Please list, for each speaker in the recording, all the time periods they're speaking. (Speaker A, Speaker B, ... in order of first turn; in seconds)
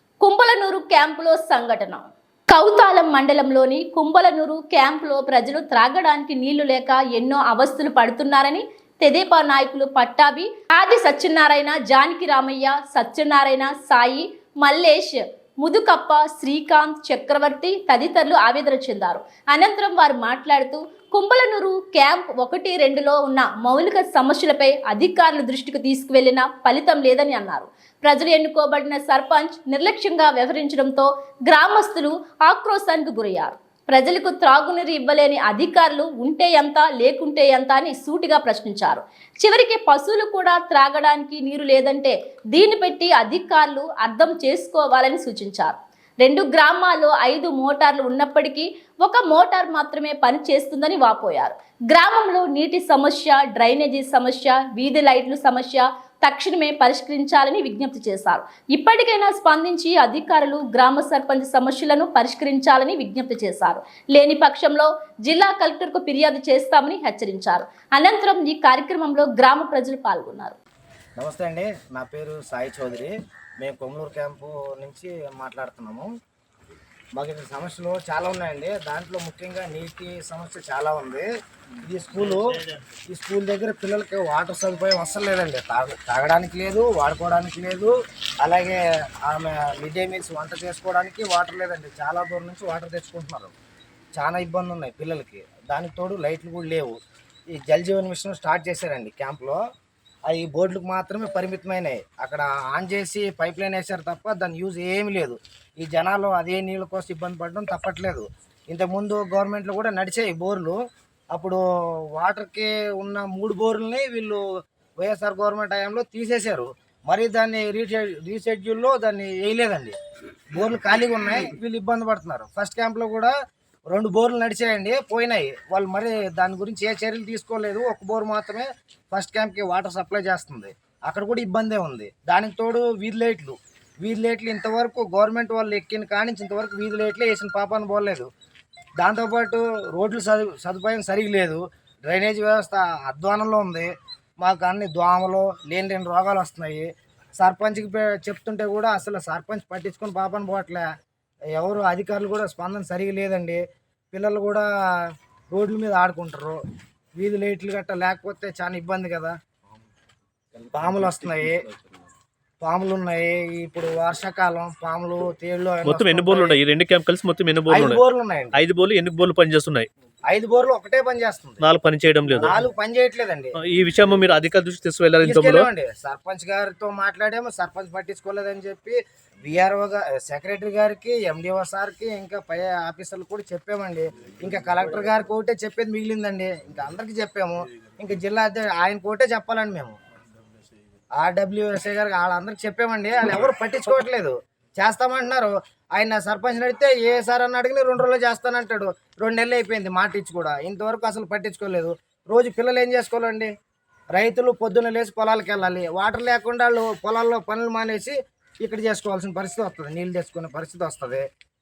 Speaker A: 0.2-70.6
Speaker B: 71.2-76.1, 77.2-81.3, 81.9-82.5, 83.1-93.5, 94.2-97.0, 97.5-99.6, 100.3-110.8, 111.3-111.6, 112.1-114.4, 115.0-120.0, 120.5-123.3, 123.9-138.3, 139.0-143.9, 144.4-146.9, 147.4-150.9, 151.6-154.7, 155.5-156.6, 157.2-159.3, 160.7-161.6, 162.6-166.6, 167.7-168.6, 170.3-171.7, 172.4-173.6, 175.2-190.0, 191.2-203.5, 204.1-211.2
Speaker C: 82.2-82.8, 165.8-168.0, 168.6-169.9, 171.6-172.6, 173.6-175.7